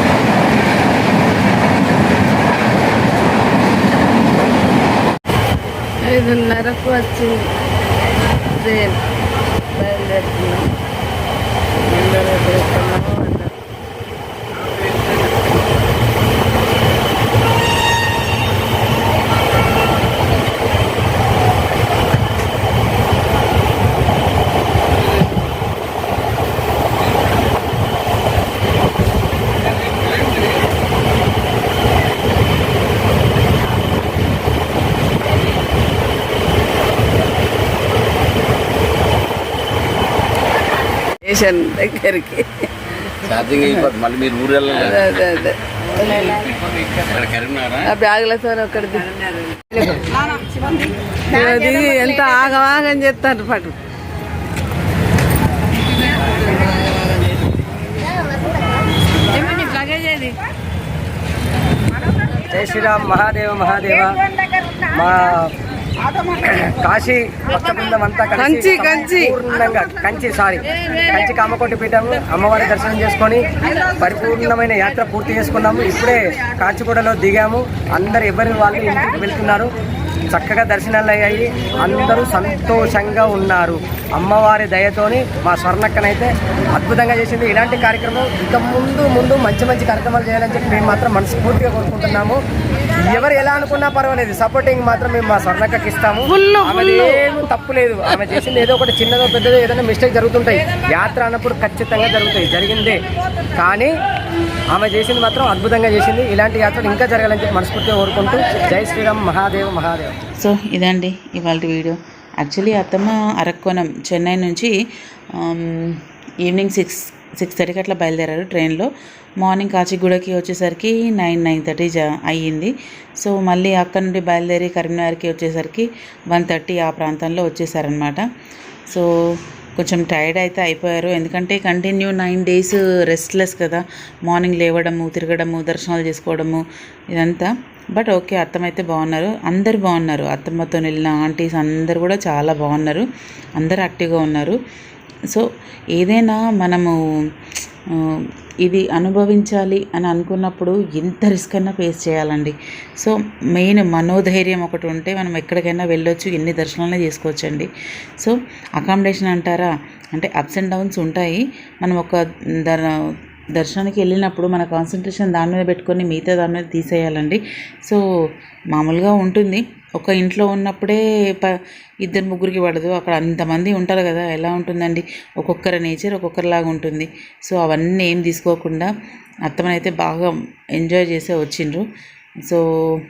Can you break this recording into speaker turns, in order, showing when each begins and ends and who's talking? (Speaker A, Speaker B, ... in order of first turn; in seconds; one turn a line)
Speaker A: 6.0-7.5
Speaker A: 8.5-9.0
Speaker A: 9.8-10.7
Speaker A: 11.9-13.5
Speaker A: 41.2-42.7
Speaker B: 43.2-45.0
Speaker A: 44.7-46.4
Speaker B: 46.6-47.9
Speaker A: 47.8-50.3
Speaker A: 51.3-53.8
Speaker A: 59.4-60.3
Speaker C: 62.4-64.2
Speaker C: 64.9-65.5
Speaker C: 66.3-79.7
Speaker A: 68.4-69.4
Speaker C: 80.3-92.4
Speaker C: 93.0-103.0
Speaker A: 96.3-97.4
Speaker C: 103.6-103.9
Speaker C: 104.7-110.2
Speaker D: 110.4-114.7
Speaker D: 115.3-128.2
Speaker D: 129.8-143.1
Speaker D: 143.6-144.6
Speaker D: 145.3-146.9
Speaker D: 148.0-157.7
Speaker D: 158.2-162.9
Speaker D: 163.6-168.0
Speaker D: 168.7-178.9
Speaker D: 179.5-181.8